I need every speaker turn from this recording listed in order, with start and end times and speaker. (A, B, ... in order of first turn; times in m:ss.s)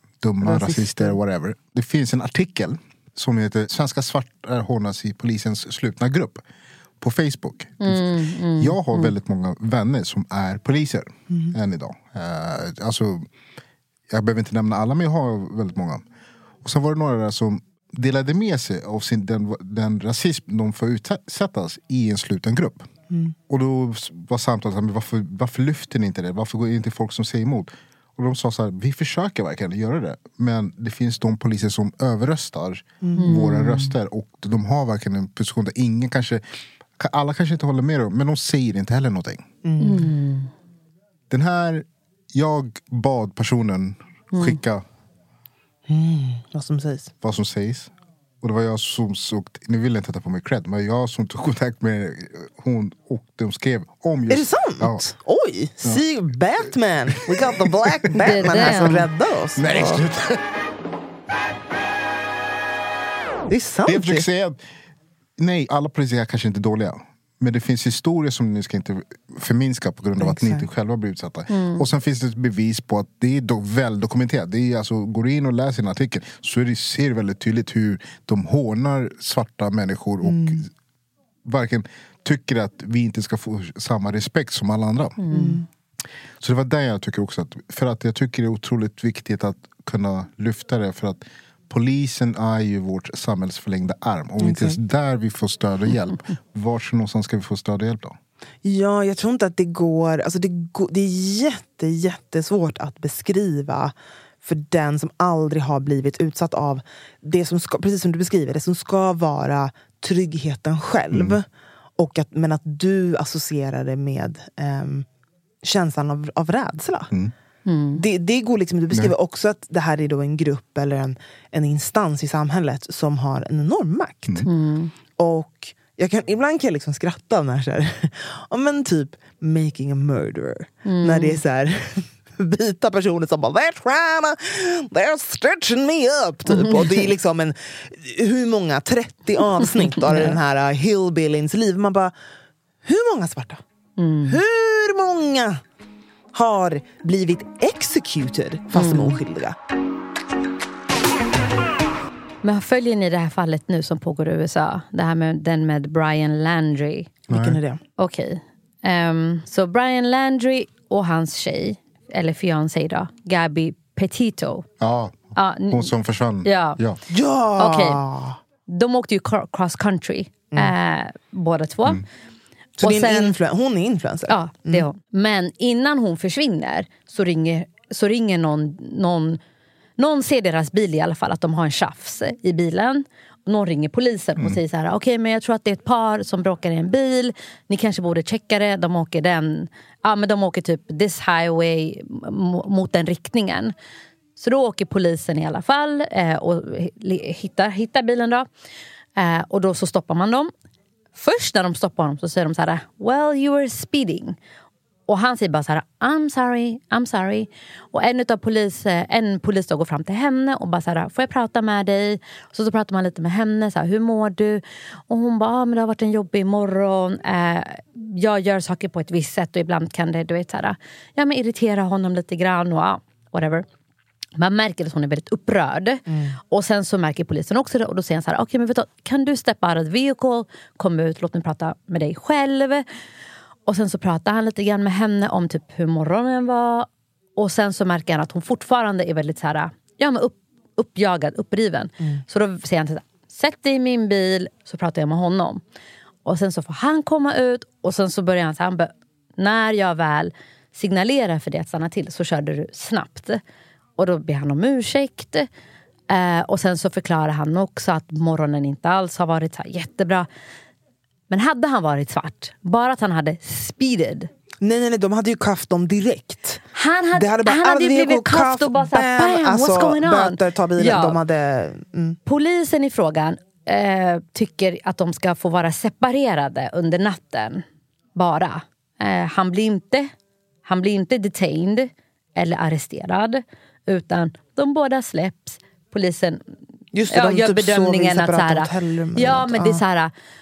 0:00.2-0:06.4 A
0:00.4-0:01.2 B
0:07.0-0:13.3 A
0:07.8-0:09.1 C
0:11.3-0:11.5 B
0:14.1-0:16.0 A
0:16.6-0:22.9 A
0:23.5-0:36.4 A
0:33.0-0:33.3 B
0:33.2-0:33.9 C
0:37.0-0:39.5 A
0:39.6-0:40.1 B
0:39.8-0:40.5 C
0:41.3-0:44.8 A
0:44.3-0:44.6 C
0:45.9-0:47.1 B
0:47.2-0:55.0 A
0:54.3-1:00.0 B
0:57.5-1:00.4 A
0:58.2-0:59.1 C
1:03.5-1:04.3 B
1:03.8-1:04.6 A
1:05.4-1:20.7 A
1:10.2-1:10.6 B
1:11.5-1:11.8 C
1:20.2-1:20.6 B
1:21.4-1:25.2 A
1:25.2-1:25.6 C
1:25.3-1:25.6 B
1:26.4-1:38.2 A
1:34.4-1:34.8 B
1:38.6-1:51.4 B
1:51.1-1:51.4 A
1:52.0-1:55.0 B
1:55.6-1:57.1 B
1:57.6-1:58.0 C
1:57.9-2:04.5 B
2:04.4-2:04.9 C
2:05.2-2:22.1 B
2:10.8-2:11.4 C
2:16.5-2:17.0 C
2:19.8-2:20.4 C
2:22.8-2:23.6 B
2:24.0-2:24.4 C
2:24.3-2:25.6 B
2:26.3-2:29.6 B
2:28.7-2:29.2 C
2:32.4-2:37.1 C
2:37.3-2:37.6 A
2:37.3-2:37.8 B
2:38.0-2:44.7 C
2:44.8-2:47.0 A
2:45.4-2:45.9 C
2:46.4-2:46.8 C
2:47.1-2:48.4 B
2:47.6-2:48.0 C
2:48.7-2:52.0 C
2:52.8-2:53.4 C
2:52.8-2:54.8 B
2:54.3-2:59.4 C
3:00.0-3:13.7 C
3:14.4-3:18.5 C
3:19.2-3:20.5 C
3:21.2-3:24.4 C
3:25.1-3:43.6 C
3:44.4-3:52.8 C
3:46.1-3:46.4 B
3:53.7-4:05.6 C
4:06.2-4:13.4 C
4:14.0-4:15.5 C
4:16.1-4:20.3 C
4:21.3-4:24.3 C
4:24.6-4:26.6 B
4:26.7-4:31.2 C
4:27.2-4:32.2 B
4:32.2-4:37.6 C
4:38.1-4:40.1 C
4:40.6-4:46.4 C
4:46.9-4:49.8 B
4:47.1-4:50.1 C